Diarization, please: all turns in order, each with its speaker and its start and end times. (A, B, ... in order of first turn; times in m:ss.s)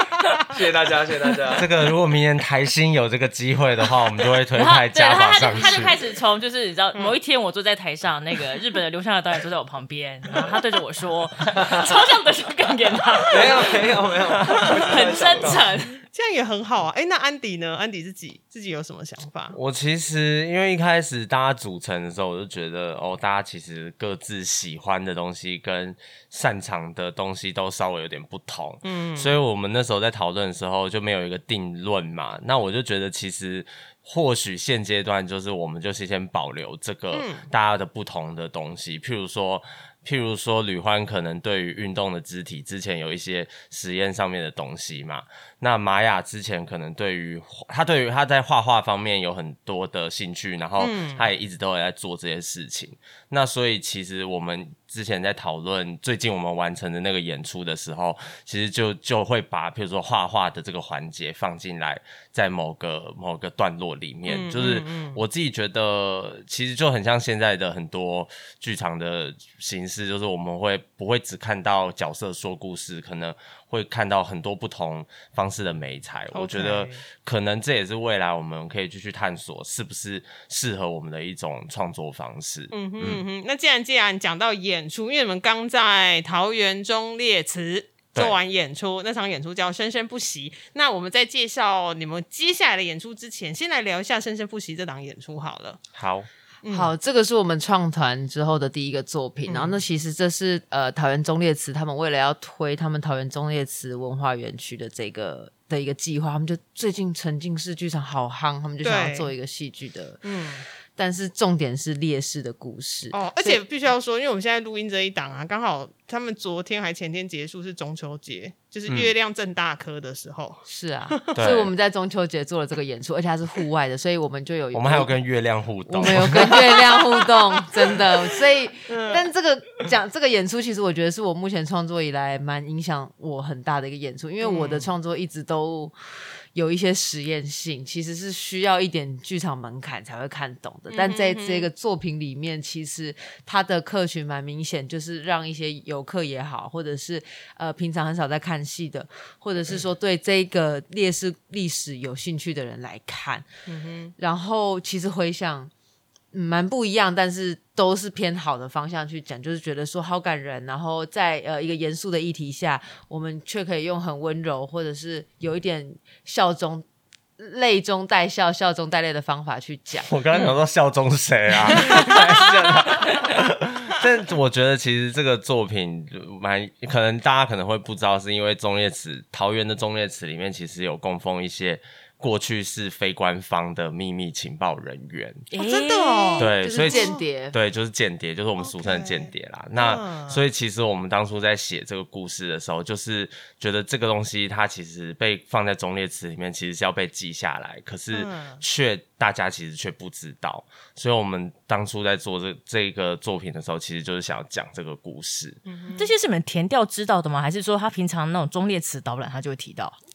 0:00.4-0:01.7 A
0:01.5-0:06.0 B
0:04.6-0:13.8 C
0:13.3-0:15.7 A
0:14.5-0:16.0 C
0:16.1-0:19.6 D
0:19.5-1:23.2 B
0:28.8-0:29.4 D
0:37.1-0:37.5 D
0:50.8-0:51.3 D
1:04.3-1:05.2 D
1:16.3-1:17.0 D
1:22.7-1:35.8 D
1:36.0-1:36.3 B
1:36.6-1:36.9 D
1:36.7-1:50.2 E
1:39.5-1:39.8 D
1:48.8-1:49.3 D
1:50.2-1:50.6 D
1:51.0-1:53.6 E
1:53.1-2:01.2 D
1:58.9-1:59.1 B
2:00.7-2:05.2 E
2:01.3-2:01.7 B
2:04.7-2:06.7 B
2:05.9-2:15.9 E
2:06.5-2:06.9 D
2:08.9-2:09.2 D
2:14.4-2:14.9 D
2:16.5-2:33.5 E
2:20.9-2:21.7 D
2:33.7-2:34.1 D
2:34.2-2:35.7 E
2:36.3-2:46.8 E
2:47.4-2:50.1 E
2:50.1-3:05.5 B
3:05.5-3:07.2 D
3:05.6-3:05.8 C
3:05.8-3:07.6 E
3:06.4-3:25.6 B
3:08.6-3:10.4 D
3:18.1-3:18.6 D
3:25.7-3:26.1 D
3:26.0-3:30.0 C